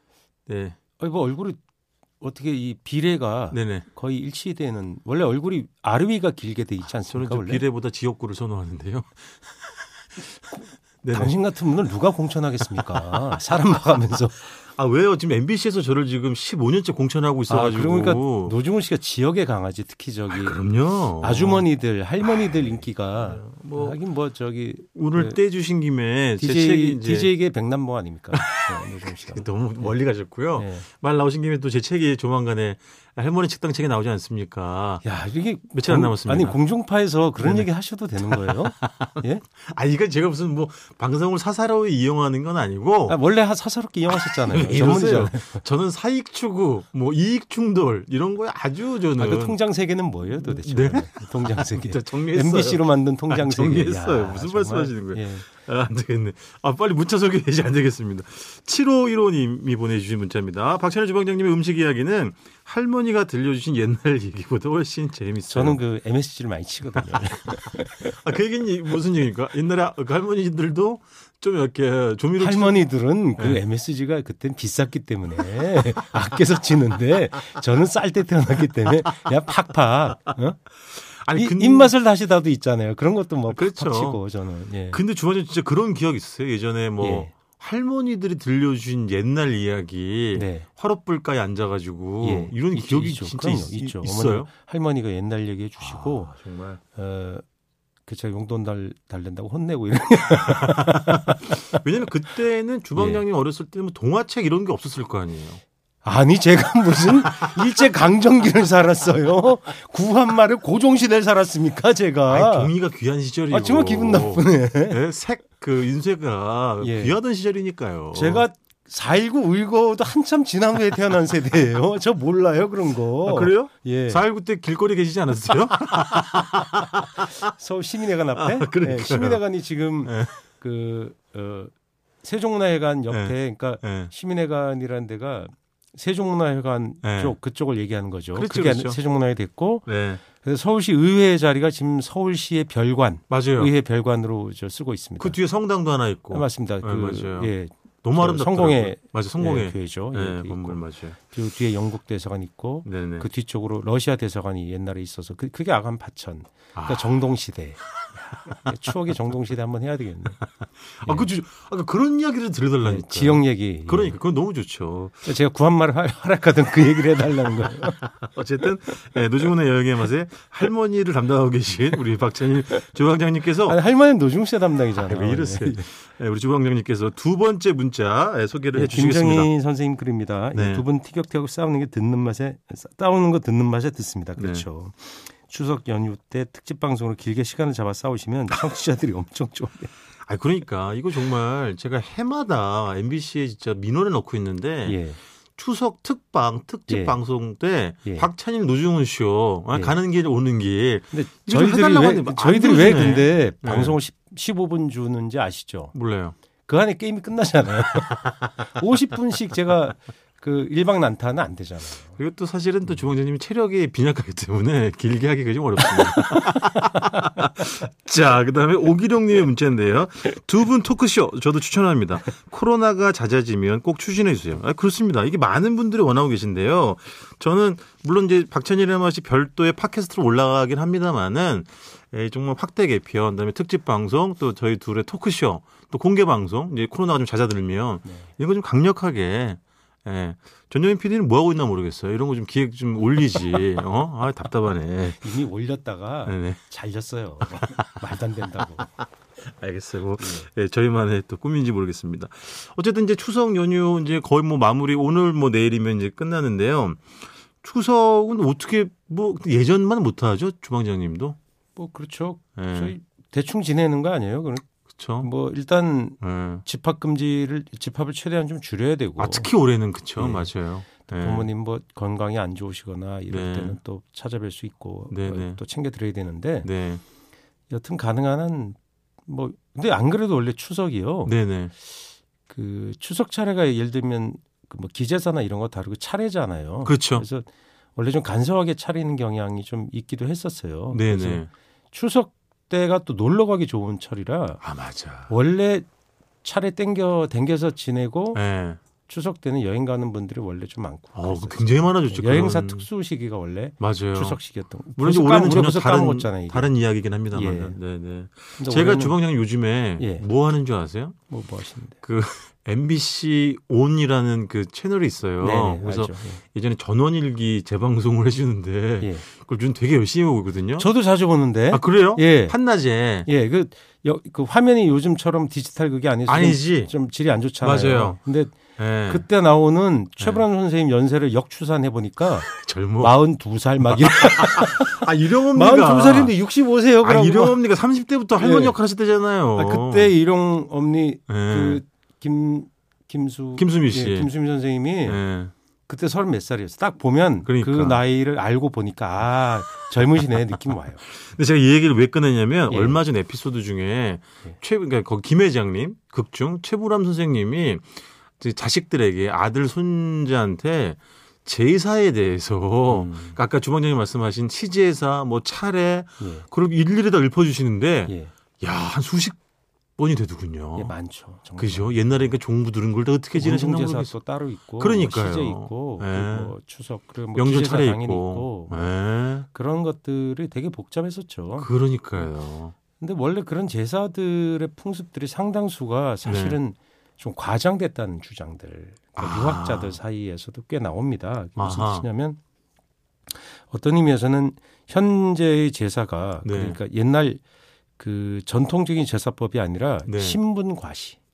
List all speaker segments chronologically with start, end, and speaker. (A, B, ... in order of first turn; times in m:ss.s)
0:00.5-0:00.8 A
0:01.0-0:01.6 B
0:02.2-0:07.6 B
0:03.5-0:03.8 A
0:07.0-0:09.6 A
0:10.2-0:11.3 A
0:11.1-0:14.4 B
0:12.7-0:13.1 A
0:14.5-0:18.5 A
0:17.5-0:20.6 B
0:20.3-0:21.6 A
0:21.2-0:25.4 B
0:22.2-0:24.0 A
0:24.9-0:27.3 A
0:26.4-0:29.9 B
0:28.3-0:35.0 A
0:30.6-0:30.8 B
0:35.0-0:39.4 B
0:35.7-0:36.6 A
0:37.4-0:37.7 A
0:38.2-0:43.2 A
0:43.1-0:45.6 B
0:44.1-0:49.6 A
0:49.2-0:55.6 B
0:50.2-1:05.8 A
1:05.5-1:08.2 B
1:07.9-1:12.8 A
1:12.4-1:20.6 B
1:20.9-1:21.9 A
1:21.3-1:25.0 B
1:23.5-1:24.2 A
1:24.9-1:34.5 A
1:27.0-1:27.3 B
1:30.3-1:30.7 B
1:32.2-1:36.3 B
1:35.8-1:36.8 A
1:36.9-1:37.4 B
1:38.1-1:41.8 B
1:40.5-1:45.6 A
1:43.0-1:43.2 B
1:46.0-1:52.7 B
1:52.3-1:58.4 A
1:53.5-1:55.0 B
1:56.8-1:57.2 B
1:58.1-2:04.2 B
2:03.2-2:07.4 A
2:07.4-2:11.7 B
2:08.4-2:09.4 A
2:10.0-2:10.4 A
2:12.2-2:25.4 B
2:13.1-2:14.1 A
2:17.0-2:17.4 A
2:18.3-2:19.0 A
2:19.8-2:20.2 A
2:23.3-2:23.7 A
2:25.2-2:27.5 A
2:26.3-2:40.4 B
2:28.0-2:31.2 A
2:32.8-2:33.3 A
2:36.7-2:37.2 A
2:38.0-2:38.5 A
2:40.9-2:45.3 A
2:41.0-2:41.3 B
2:42.8-2:44.2 B
2:45.2-2:48.0 B
2:48.0-2:53.8 A
2:53.6-2:55.9 B
2:54.9-2:59.5 A
2:58.7-3:09.9 B
3:00.5-3:00.8 A
3:04.4-3:04.6 A
3:10.2-3:15.0 A
3:14.8-3:15.2 B
3:15.6-3:24.0 A
3:16.9-3:17.2 B
3:19.7-3:20.0 B
3:21.1-3:25.9 B
3:25.9-3:26.4 A
3:26.7-3:32.2 B
3:32.2-4:05.3 A
3:36.0-3:36.2 B
4:05.2-4:08.9 B
4:06.2-4:06.6 A
4:07.5-4:08.0 A
4:09.4-4:21.4 A
4:10.2-4:10.5 B
4:21.8-4:24.7 B
4:22.6-4:22.9 A
4:25.0-4:25.3 A
4:25.2-4:29.5 B
4:26.2-4:26.6 A
4:29.2-4:31.5 A
4:30.2-4:36.7 B
4:33.3-4:33.8 A
4:35.1-4:35.6 A
4:36.6-4:37.0 A
4:37.7-4:41.3 B
4:41.2-4:41.7 A
4:42.5-4:54.6 B
4:46.8-4:47.2 A
4:50.9-4:51.5 A
4:54.6-4:55.3 A
4:55.3-4:55.8 B
4:56.4-4:58.4 B
4:58.3-4:58.8 A
4:59.1-5:06.7 B
5:01.1-5:02.8 A
5:03.8-5:04.4 A
5:05.0-5:11.2 A
5:07.3-5:07.8 B
5:08.6-5:09.2 B
5:10.0-5:10.2 B
5:11.3-5:12.0 B
5:12.0-5:20.9 A
5:15.4-5:16.4 B
5:20.8-5:22.6 B
5:21.7-5:23.3 A
5:23.2-5:37.6 B
5:26.3-5:26.9 A
5:27.6-5:28.2 A
5:28.8-5:29.2 A
5:32.5-5:33.2 A
5:33.9-5:36.4 A
5:37.0-5:40.1 A
5:38.4-5:38.8 B
5:39.6-5:45.2 B
5:41.3-5:41.8 A
5:43.6-5:44.3 A
5:45.0-5:45.5 A
5:45.9-5:51.0 B
5:47.4-5:48.0 A
5:51.0-6:09.4 A
5:52.7-5:53.0 B
6:02.9-6:03.4 B
6:06.2-6:06.5 B
6:08.1-6:08.3 B
6:10.0-6:10.9 A
6:10.8-6:12.4 B
6:11.6-6:14.2 A
6:13.3-6:18.9 B
6:14.8-6:16.5 A
6:17.4-6:19.4 A
6:19.4-6:22.2 B
6:21.6-6:22.8 A
6:23.0-6:32.4 B
6:26.2-6:26.6 A
6:29.2-6:30.0 A
6:31.6-6:32.0 A
6:33.3-6:37.4 B
6:36.4-6:36.8 A
6:38.0-6:41.2 B
6:40.1-6:40.4 A